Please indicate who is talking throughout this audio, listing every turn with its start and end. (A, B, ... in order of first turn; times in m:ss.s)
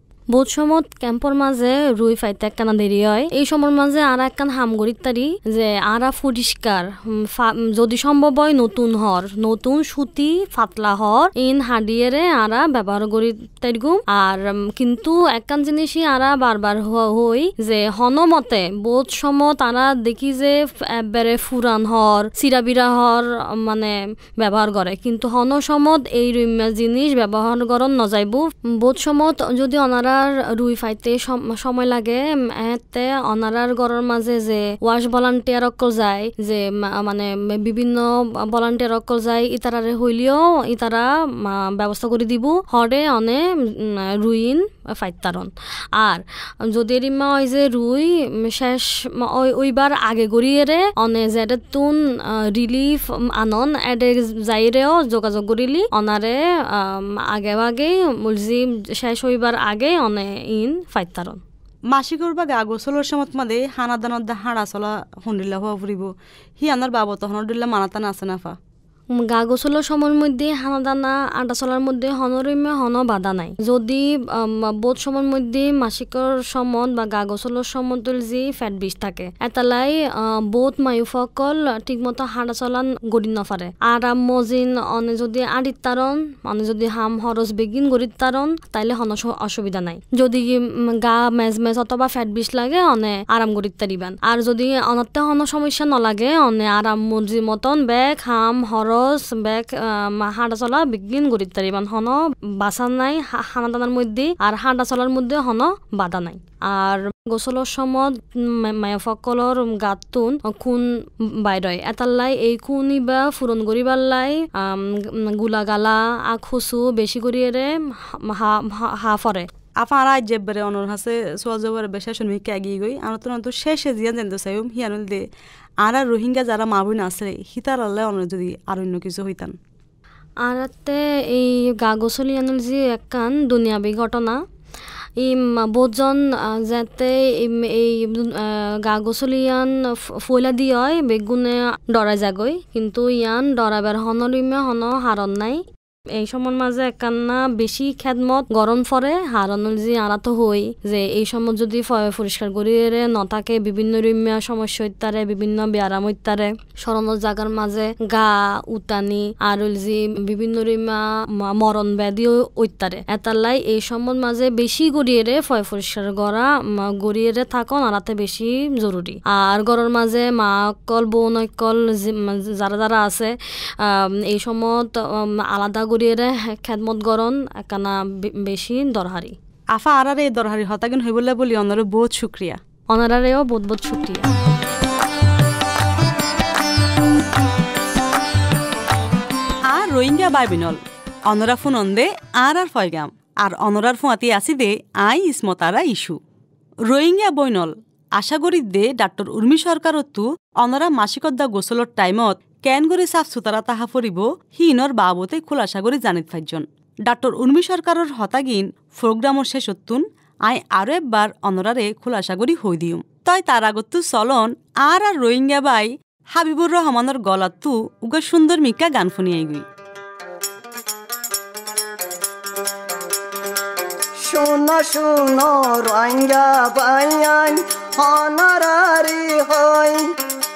0:00.3-1:01.4 A
1:01.9-1:08.6 B
1:09.1-1:50.8 A
1:51.4-1:59.5 A
1:59.8-2:05.2 B
2:05.8-2:09.6 B
2:10.4-2:14.4 A
2:15.2-2:25.6 A
2:26.2-2:59.4 A
2:59.7-3:02.6 B
3:02.9-3:04.3 A
3:09.7-3:16.2 B
3:16.9-3:39.7 B
3:44.2-3:50.1 C